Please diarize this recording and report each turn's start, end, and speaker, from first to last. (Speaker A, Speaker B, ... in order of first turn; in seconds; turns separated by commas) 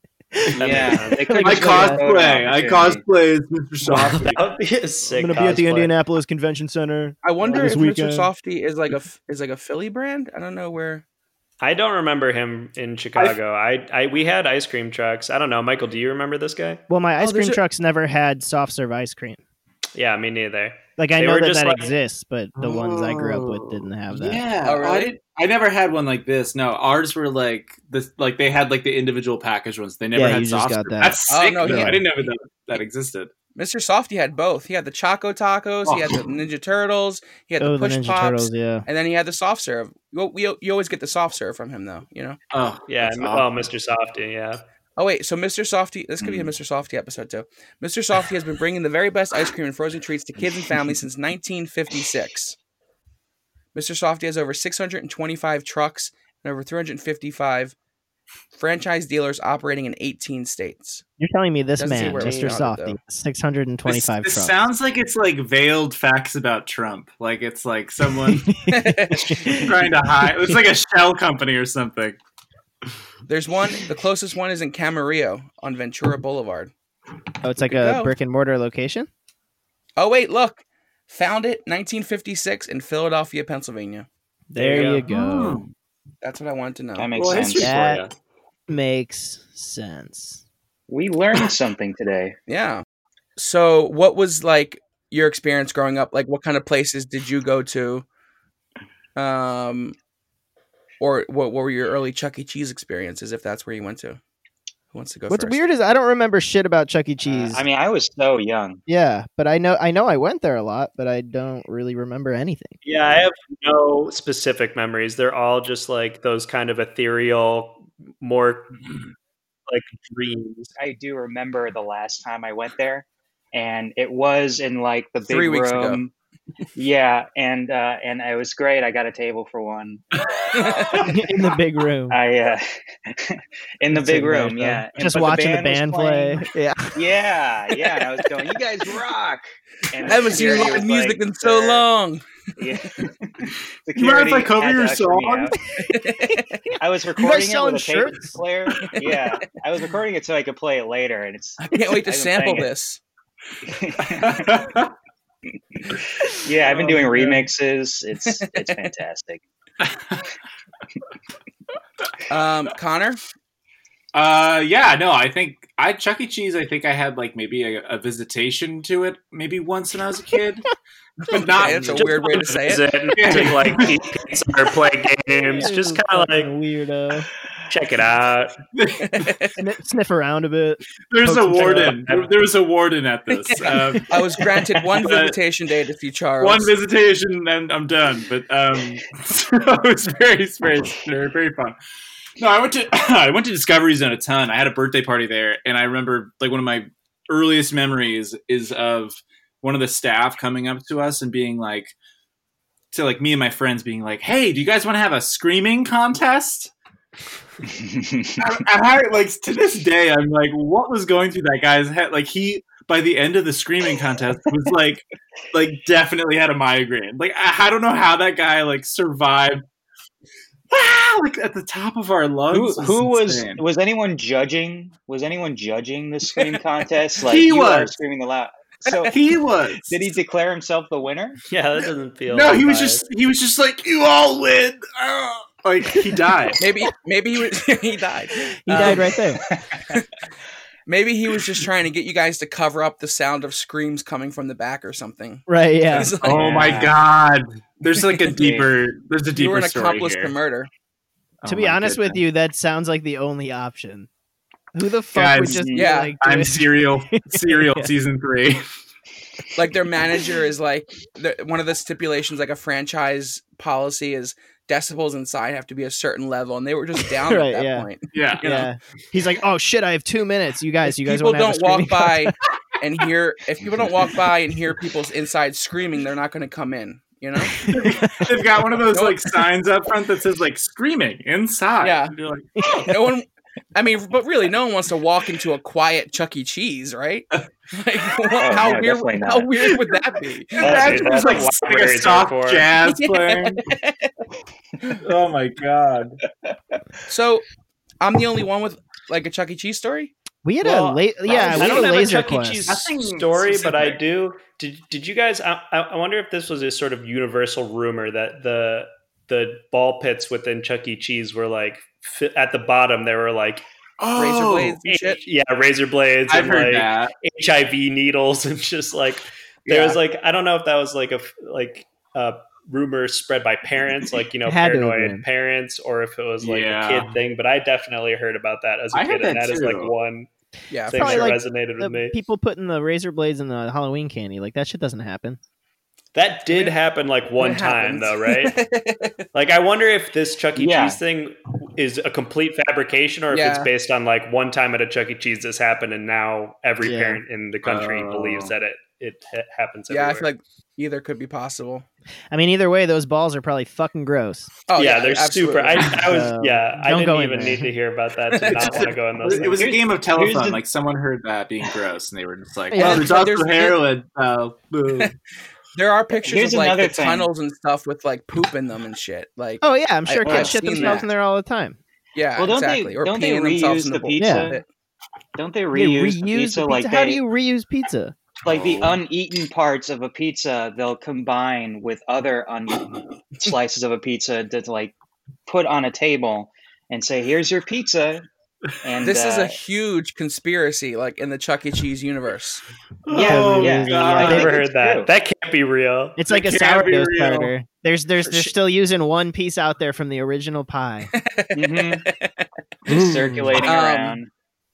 Speaker A: 0.3-2.0, Speaker B: 0.6-3.0, Speaker C: 0.6-1.4, Speaker D: 1.4-4.5, Speaker C: 3.8-5.9, Speaker A: 5.1-8.3, Speaker E: 7.2-11.0, Speaker C: 11.6-16.8, Speaker A: 16.9-19.4, Speaker E: 17.2-17.6, Speaker C: 19.9-21.9, Speaker A: 21.0-24.4, Speaker D: 22.6-33.3, Speaker E: 24.6-25.2, Speaker A: 30.1-32.0, Speaker E: 31.3-32.0, Speaker E: 33.5-42.4, Speaker D: 35.8-36.2, Speaker A: 37.6-38.9, Speaker D: 42.5-43.6, Speaker C: 42.9-44.6, Speaker E: 45.0-52.6, Speaker E: 53.7-57.8, Speaker E: 58.5-61.0, Speaker A: 61.2-64.5, Speaker E: 61.8-63.0, Speaker D: 63.9-68.6, Speaker A: 68.2-70.6, Speaker E: 68.7-69.6, Speaker D: 69.5-72.2, Speaker E: 73.3-76.7, Speaker A: 77.4-79.1, Speaker E: 77.6-78.1, Speaker E: 80.0-84.1, Speaker A: 84.5-85.6, Speaker C: 84.5-85.0, Speaker D: 85.0-85.7, Speaker E: 86.2-87.6, Speaker B: 87.0-87.8, Speaker D: 87.1-88.1, Speaker A: 87.6-88.0, Speaker A: 88.7-90.4, Speaker B: 90.9-92.4, Speaker E: 92.5-92.8, Speaker E: 93.4-98.0, Speaker E: 99.2-100.0, Speaker E: 101.0-104.2, Speaker E: 104.9-105.7, Speaker A: 105.3-107.6, Speaker B: 107.2-108.8, Speaker A: 108.9-112.8, Speaker C: 112.8-118.9, Speaker C: 119.7-120.7, Speaker B: 120.8-126.1, Speaker E: 125.3-126.0, Speaker B: 126.8-131.1, Speaker E: 130.5-131.1, Speaker A: 131.0-132.2, Speaker B: 132.1-136.4, Speaker A: 133.9-137.0, Speaker B: 136.9-141.8, Speaker E: 140.1-142.2, Speaker B: 142.6-145.6, Speaker D: 143.9-145.5, Speaker E: 145.8-146.7, Speaker B: 146.8-152.7, Speaker A: 147.2-148.4, Speaker E: 151.6-153.0, Speaker B: 153.6-154.6, Speaker D: 154.0-154.9, Speaker B: 155.8-159.4, Speaker D: 156.6-157.4, Speaker D: 159.8-160.3, Speaker E: 162.3-163.2, Speaker D: 164.1-170.7, Speaker D: 171.2-172.5, Speaker E: 171.3-172.9, Speaker C: 172.2-176.5, Speaker D: 173.1-174.0, Speaker A: 175.5-177.3, Speaker C: 177.7-178.6, Speaker D: 178.7-179.3, Speaker E: 179.0-179.6, Speaker A: 179.6-182.2, Speaker D: 181.1-185.4, Speaker E: 183.6-186.7, Speaker D: 186.4-191.8, Speaker D: 192.4-201.9, Speaker D: 202.9-206.7, Speaker B: 207.7-208.4, Speaker D: 208.4-219.6, Speaker D: 220.7-223.6, Speaker B: 222.5-229.2, Speaker D: 227.2-227.9, Speaker D: 229.1-230.1, Speaker B: 229.9-231.4, Speaker C: 231.5-233.0, Speaker D: 232.3-236.6, Speaker E: 236.6-239.1, Speaker A: 238.6-239.4, Speaker B: 238.8-240.0, Speaker E: 240.9-246.8, Speaker A: 245.5-246.1, Speaker D: 246.2-250.3, Speaker B: 246.3-247.0, Speaker B: 248.3-248.7, Speaker E: 249.3-250.7, Speaker D: 251.4-252.2, Speaker A: 251.4-254.1, Speaker A: 254.7-257.9, Speaker D: 255.1-255.7, Speaker B: 255.4-255.9, Speaker E: 255.7-256.2, Speaker D: 256.2-258.6, Speaker E: 259.5-268.7, Speaker A: 267.2-267.9, Speaker D: 268.1-268.4, Speaker A: 268.4-272.3, Speaker E: 270.8-277.6, Speaker A: 277.6-278.3, Speaker D: 277.7-282.9, Speaker E: 278.9-279.3, Speaker E: 281.8-282.1, Speaker A: 282.6-282.9, Speaker E: 282.7-290.9, Speaker B: 288.4-289.5, Speaker D: 290.6-293.7, Speaker B: 290.6-291.5, Speaker C: 290.6-292.7, Speaker E: 292.8-294.1, Speaker D: 295.0-296.2, Speaker E: 297.1-297.4, Speaker E: 298.0-300.1, Speaker A: 300.4-302.8, Speaker C: 300.6-313.6, Speaker D: 301.4-302.0, Speaker D: 302.6-304.0, Speaker D: 314.0-314.8, Speaker E: 314.1-315.2, Speaker C: 314.8-330.3, Speaker D: 316.3-317.1, Speaker A: 324.5-325.2, Speaker D: 326.4-327.1, Speaker D: 328.9-329.9, Speaker E: 330.7-331.3, Speaker C: 330.9-332.1, Speaker A: 330.9-335.4, Speaker C: 336.1-338.6, Speaker E: 336.5-336.7, Speaker E: 337.4-339.1, Speaker C: 339.3-350.3, Speaker B: 340.6-341.0, Speaker E: 343.3-343.7, Speaker A: 346.8-347.2, Speaker D: 347.6-348.5, Speaker E: 349.9-351.9, Speaker A: 352.3-354.5, Speaker E: 354.7-356.0, Speaker C: 354.8-359.6, Speaker A: 356.0-357.7, Speaker E: 358.3-358.9, Speaker D: 358.5-365.1, Speaker A: 359.2-359.6, Speaker B: 359.5-360.6, Speaker A: 362.7-363.1, Speaker E: 362.8-363.8, Speaker E: 365.8-371.1, Speaker B: 366.2-367.3, Speaker A: 369.6-371.8, Speaker D: 370.2-370.6, Speaker B: 370.8-371.0, Speaker E: 372.1-374.6, Speaker B: 372.4-374.6, Speaker A: 374.2-374.5, Speaker B: 375.4-377.2, Speaker A: 375.7-378.2, Speaker B: 378.4-388.2, Speaker D: 378.5-379.0, Speaker B: 388.8-389.5, Speaker E: 389.0-392.6, Speaker D: 393.1-394.5, Speaker B: 393.1-395.1, Speaker A: 393.1-394.5, Speaker C: 394.1-396.2, Speaker A: 396.2-401.1, Speaker D: 396.3-397.5, Speaker E: 398.2-398.5, Speaker E: 401.1-402.5, Speaker B: 401.5-402.1, Speaker B: 402.9-404.3, Speaker A: 402.9-403.6, Speaker E: 403.6-404.2